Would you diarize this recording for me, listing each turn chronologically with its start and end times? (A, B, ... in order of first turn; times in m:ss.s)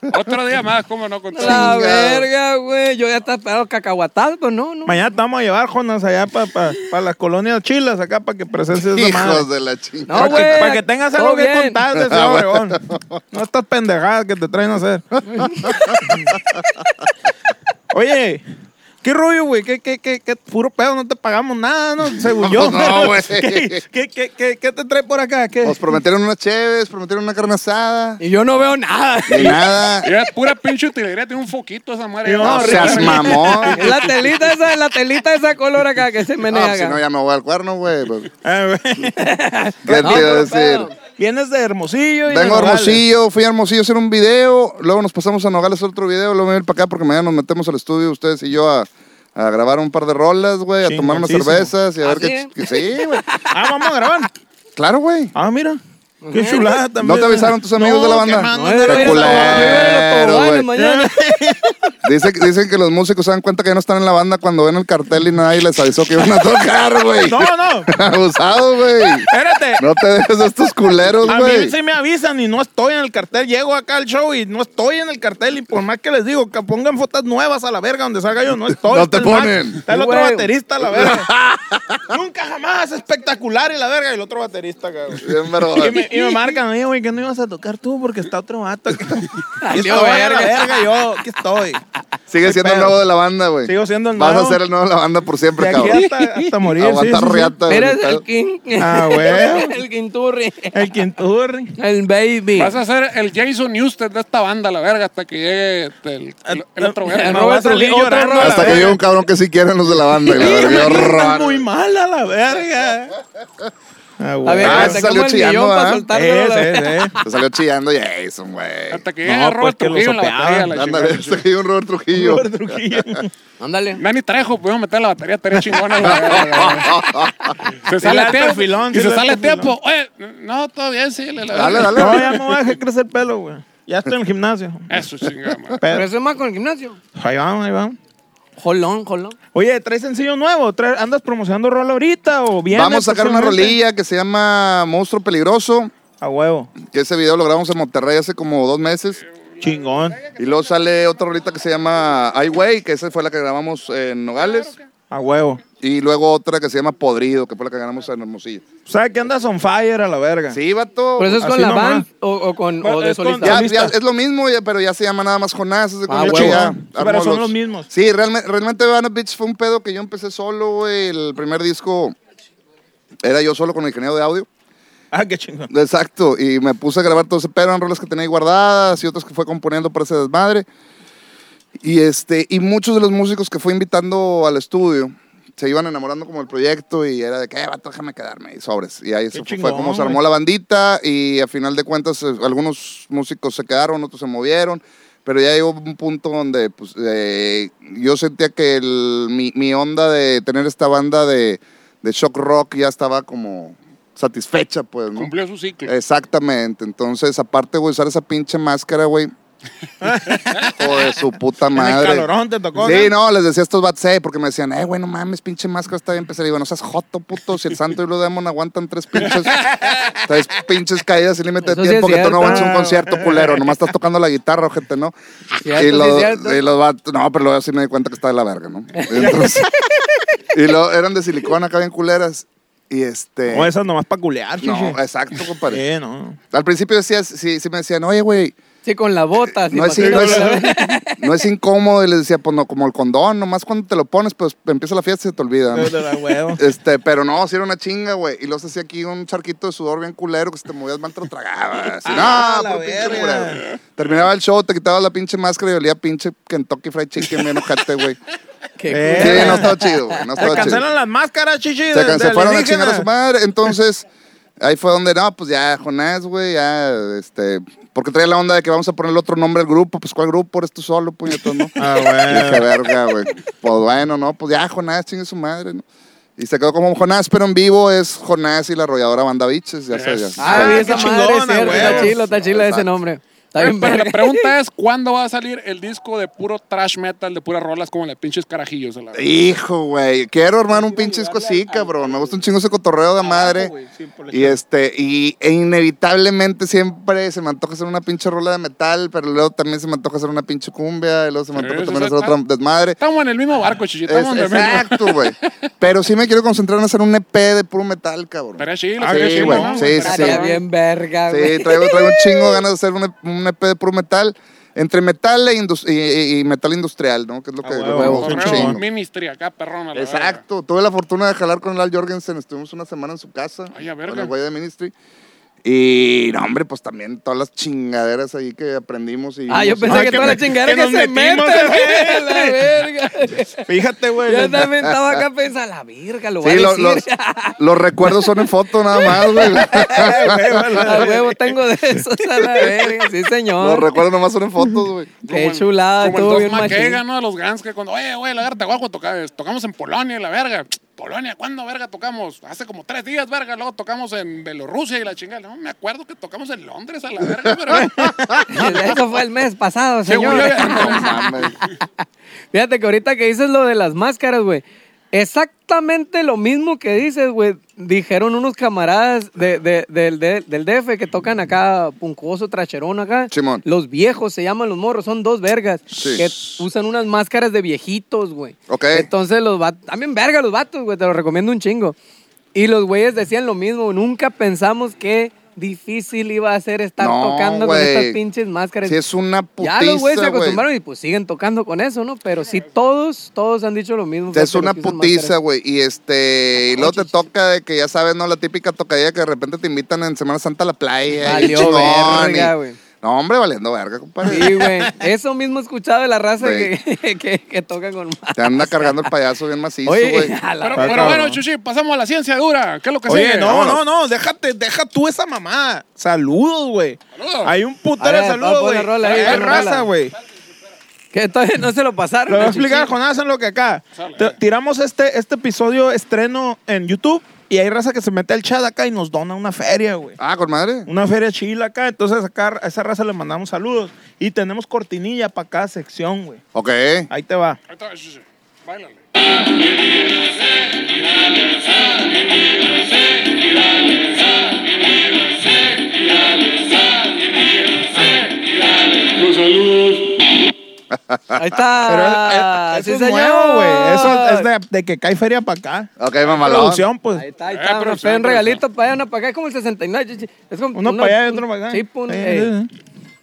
0:00.1-0:01.8 A
0:01.3-0:05.0 B
0:01.4-0:02.3 C
0:04.8-0:09.4 D
0:08.7-0:10.6 C
0:10.1-0:11.8 B
0:10.1-0:12.8 D
0:11.9-0:13.2 C
0:13.3-0:15.0 D
0:15.3-0:15.9 B
0:15.4-0:16.8 C
0:16.0-0:16.4 D
0:17.9-0:18.4 D
0:19.0-0:25.8 D
0:22.4-0:23.8 C
0:25.6-0:28.2 C
0:28.2-0:29.9 B
0:29.3-0:30.1 C
0:30.0-0:34.1 A
0:32.2-0:33.6 D
0:32.4-0:33.9 C
0:33.7-0:37.0 B
0:36.5-0:38.3 C
0:38.4-0:39.3 D
0:39.2-0:40.9 B
0:39.8-0:40.9 C
0:39.9-0:40.4 D
0:41.1-0:43.0 D
0:42.2-0:53.2 C
0:50.8-0:51.7 D
0:52.0-0:53.8 B
0:53.5-0:54.3 D
0:54.8-0:55.3 C
0:55.3-0:55.8 D
0:56.2-0:56.8 B
0:56.3-0:59.9 D
0:57.0-1:00.7 C
0:58.5-1:01.3 B
1:00.7-1:01.7 D
1:02.0-1:11.7 C
1:07.2-1:07.9 D
1:09.2-1:09.8 D
1:11.2-1:21.3 D
1:18.8-1:19.8 C
1:19.9-1:20.5 B
1:20.8-1:22.1 C
1:22.1-1:31.8 D
1:25.2-1:26.1 C
1:29.6-1:31.1 B
1:32.3-1:36.1 C
1:32.4-1:33.0 D
1:33.6-1:34.6 D
1:35.6-1:37.6 D
1:35.9-1:36.4 B
1:36.7-1:38.2 C
1:37.6-1:41.0 B
1:38.8-1:39.8 D
1:40.7-1:41.8 D
1:41.8-1:42.7 B
1:42.6-1:47.5 A
1:46.5-1:49.0 D
1:47.1-1:49.0 B
1:48.4-1:51.6 C
1:50.2-1:53.2 D
1:50.4-1:51.0 B
1:54.2-1:55.0 D
1:54.4-1:57.2 B
1:54.6-1:56.0 C
1:56.1-1:57.1 D
1:57.2-1:59.0 C
1:58.9-2:01.4 A
1:59.2-2:00.7 D
2:00.7-2:03.2 C
2:02.1-2:03.3 D
2:03.6-2:04.0 B
2:04.0-2:07.0 A
2:06.0-2:07.5 C
2:07.7-2:12.4 A
2:08.0-2:09.7 D
2:11.5-2:12.4 C
2:11.7-2:15.0 D
2:14.9-2:15.8 A
2:15.8-2:16.1 D
2:15.9-2:17.0 B
2:17.2-2:18.0 D
2:18.6-2:19.4 B
2:19.5-2:23.8 D
2:22.7-2:25.9 C
2:26.2-2:26.7 D
2:26.8-2:29.2 C
2:29.4-2:30.6 A
2:29.6-2:30.2 D
2:30.4-2:34.7 C
2:34.4-2:34.8 A
2:35.1-2:35.6 D
2:35.8-2:38.6 C
2:38.8-2:40.6 D
2:40.5-2:41.4 C
2:41.2-2:43.6 B
2:41.4-2:42.0 D
2:42.8-2:43.9 D
2:43.4-2:52.2 C
2:46.1-2:46.7 B
2:46.2-2:47.9 D
2:53.2-2:54.5 C
2:55.1-2:55.7 D
2:55.7-3:00.6 C
3:01.8-3:25.3 C
3:09.3-3:10.2 D
3:25.2-3:25.9 A
3:25.8-3:29.3 C
3:30.0-3:31.2 D
3:30.8-3:45.1 C
3:31.7-3:33.1 D
3:39.2-3:40.2 D
3:41.6-3:42.7 B
3:42.4-3:43.7 D
3:45.6-3:46.6 B
3:45.6-3:49.7 C
3:48.9-3:50.2 B
3:50.5-3:53.7 C
3:53.5-3:55.0 D
3:54.6-3:55.8 C
3:55.6-3:56.4 D
3:56.5-3:58.6 C
3:58.8-4:01.4 B
3:59.6-4:18.2 C
3:59.9-4:00.7 D
4:05.7-4:06.6 D
4:12.0-4:13.6 D
4:18.8-4:20.8 B
4:18.9-4:19.7 D
4:19.1-4:20.8 C
4:20.4-4:23.1 D
4:21.9-4:24.0 C
4:24.6-4:35.8 C
4:31.8-4:32.7 D
4:36.4-4:42.9 C
4:39.9-4:40.6 A
4:40.4-4:44.5 B
4:40.4-4:42.1 D
4:41.6-4:41.9 A
4:43.6-4:49.2 A
4:49.1-4:53.7 C
4:50.8-4:52.3 D
4:53.2-4:54.6 D
4:54.3-5:03.0 C
5:01.5-5:02.4 A
5:03.0-5:05.3 A
5:04.1-5:10.4 C
5:08.6-5:10.6 A
5:09.0-5:10.0 D
5:10.0-5:12.6 B
5:11.3-5:18.8 C
5:17.6-5:18.8 D
5:17.9-5:18.6 B
5:18.2-5:20.4 A
5:19.9-5:24.9 C
5:23.7-5:24.3 A
5:25.6-5:30.4 C
5:29.5-5:33.7 B
5:29.9-5:32.6 D
5:33.6-5:34.7 D
5:34.2-5:40.2 B
5:34.8-5:35.2 C
5:36.4-5:37.0 C
5:37.6-5:41.0 C
5:39.8-5:41.6 D
5:40.7-5:43.9 B
5:42.3-5:42.8 D
5:43.6-5:45.1 C
5:45.2-5:58.1 A
5:45.2-5:47.0 B
5:57.4-5:58.8 C
5:57.7-5:58.4 D
5:58.5-6:01.7 B
6:00.0-6:01.2 A
6:00.4-6:01.6 C
6:02.5-6:22.0 B
6:13.3-6:13.6 C
6:15.9-6:16.6 C
6:18.7-6:19.1 C
6:22.5-6:29.0 B
6:27.0-6:28.2 C
6:28.8-6:30.6 C
6:29.6-6:35.3 B
6:34.3-6:44.6 C
6:36.7-6:37.1 B
6:41.2-6:42.8 B
6:44.2-6:49.1 B
6:44.3-6:45.0 D
6:46.4-6:46.7 C
6:48.4-6:50.3 C
6:49.8-6:51.2 B
6:50.6-6:53.8 A
6:50.8-6:51.4 D
6:53.1-7:00.1 D
6:57.1-6:57.5 A
6:58.0-6:59.9 B
6:59.0-6:59.7 A
7:01.1-7:02.9 B
7:02.3-7:10.2 D
7:04.0-7:04.4 A
7:10.2-7:10.9 C
7:10.9-7:16.4 D
7:16.5-7:17.1 C
7:17.1-7:17.6 D
7:17.7-7:19.0 A
7:25.9-7:26.6 A
7:27.8-7:28.4 A
7:29.0-7:30.1 A
7:30.9-7:31.6 C
7:31.3-7:34.5 B
7:31.9-7:37.2 D
7:36.0-7:36.8 C
7:37.1-7:42.5 B
7:37.5-7:38.6 A
7:40.7-7:42.7 D